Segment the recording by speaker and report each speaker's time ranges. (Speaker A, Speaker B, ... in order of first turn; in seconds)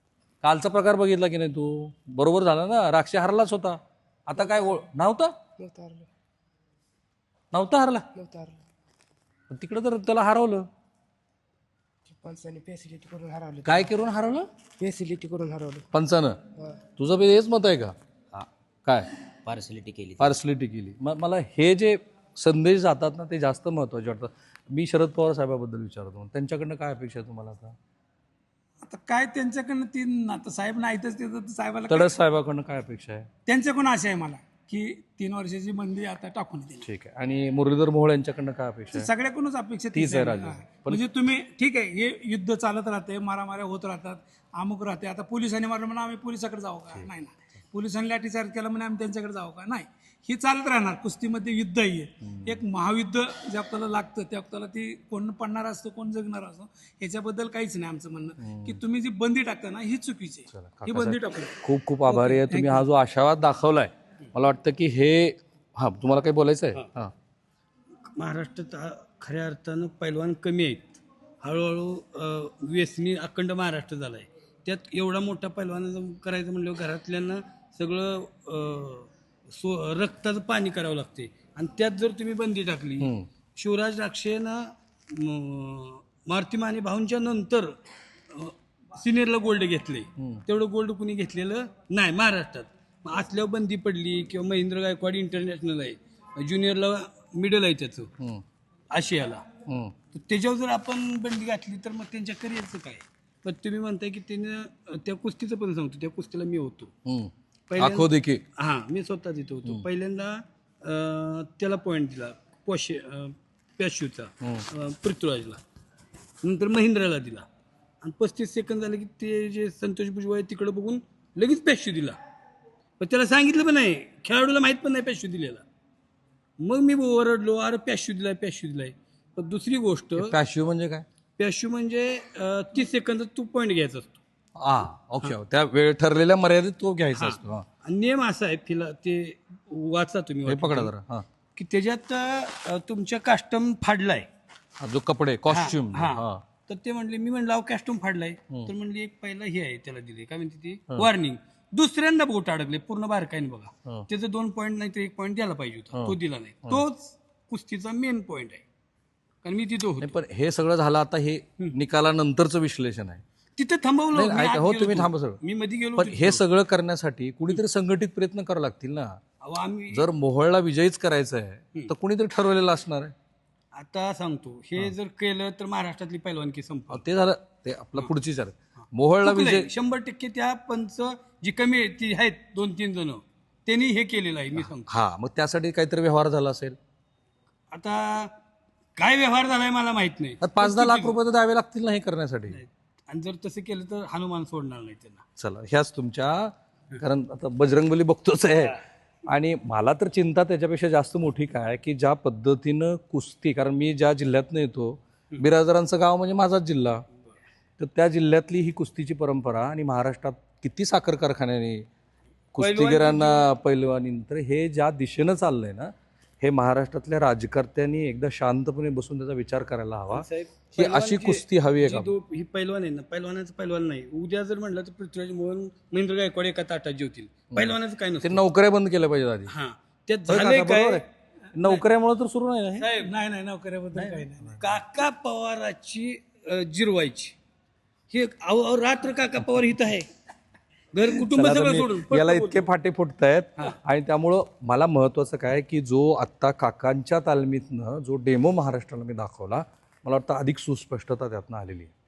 Speaker A: 0.4-5.3, 7.5-8.1, 9.5-10.7, 13.6-14.5, 15.9-19.1, 20.1-27.8, 31.9-33.3, 36.8-39.1, 39.9-41.0, 52.2-52.6, 58.4-58.8, 60.5-67.1, 83.0-83.3, 90.2-90.4, 98.2-98.4, 99.7-99.9, 107.0-108.4, 130.2-131.1, 134.6-137.7, 140.5-141.3, 144.8-146.4, 155.9-156.8, 160.0-163.2, 164.1-165.4, 166.0-169.2, 169.9-173.1, 176.9-179.7, 184.6-186.8, 190.4-192.6, 195.4-207.0, 207.8-211.9, 212.5-222.1, 227.5-229.5, 230.3-232.9, 234.0-234.7, 241.2-251.9
Speaker B: 5.6-6.1, 8.1-8.6, 12.1-13.9, 14.8-15.8
Speaker C: 19.5-20.2, 68.0-87.8, 88.3-98.1, 98.9-99.5, 100.1-106.9, 107.7-115.6, 116.4-117.5, 118.0-122.2, 123.0-125.6, 126.6-130.3, 131.4-134.2, 137.1-140.9, 141.6-144.3, 145.5-158.6, 159.4-160.2, 163.6-166.4, 169.4-170.1, 173.7-177.0, 179.2-184.9, 187.7-188.3, 188.9-191.2, 192.5-195.2, 212.6-213.5, 220.1-228.4, 229.5-231.0, 232.8-233.1, 234.6-237.3, 238.1-240.1, 240.9-242.7
Speaker D: 28.8-32.1, 33.5-36.9, 38.9-62.9, 233.0-234.6